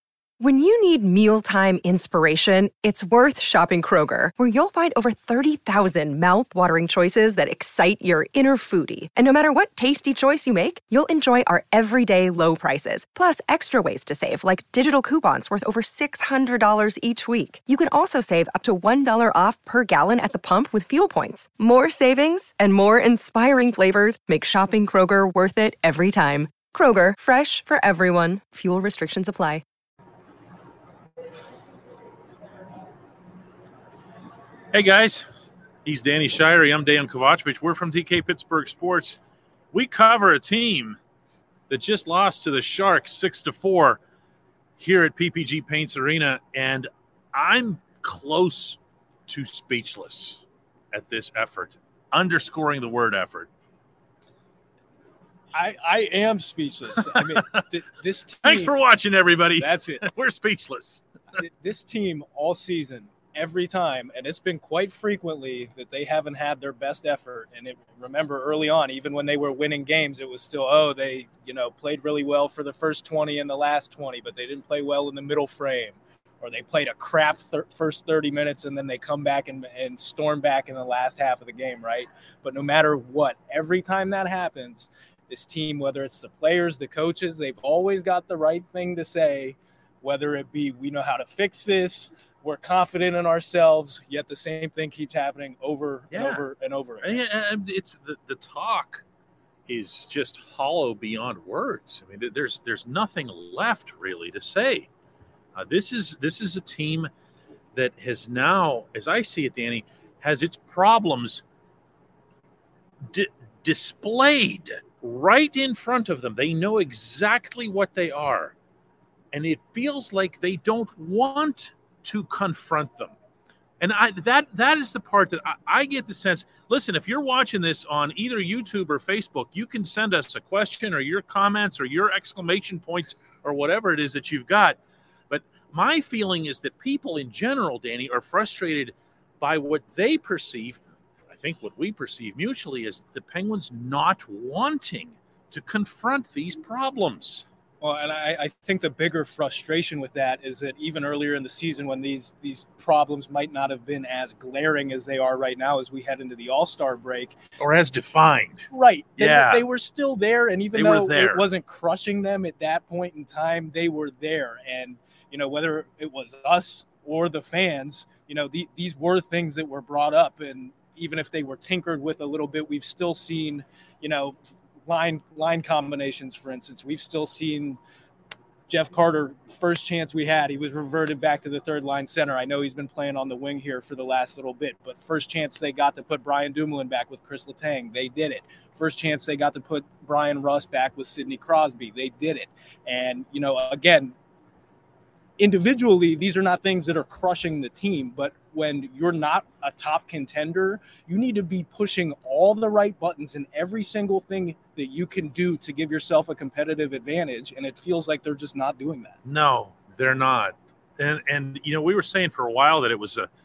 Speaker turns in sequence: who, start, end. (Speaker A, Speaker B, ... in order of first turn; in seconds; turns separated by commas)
Speaker A: 0.4-29.6, Speaker B: 34.7-35.3, Speaker B: 35.8-39.2, Speaker B: 39.7-41.0, Speaker B: 41.7-44.0, Speaker B: 44.8-53.5, Speaker C: 55.5-58.8, Speaker B: 57.0-57.6, Speaker B: 58.4-61.0, Speaker C: 59.6-60.0, Speaker C: 61.4-97.2, Speaker B: 96.1-96.5, Speaker B: 97.0-99.0, Speaker B: 99.7-104.9, Speaker B: 105.5-107.1, Speaker B: 107.7-111.4, Speaker B: 113.1-118.5, Speaker B: 119.3-123.1, Speaker B: 123.8-134.8, Speaker B: 135.3-147.5, Speaker C: 147.8-157.4, Speaker B: 157.6-159.7, Speaker C: 158.7-177.8, Speaker B: 160.7-161.5, Speaker C: 178.7-194.2, Speaker C: 195.4-209.2, Speaker B: 209.2-213.3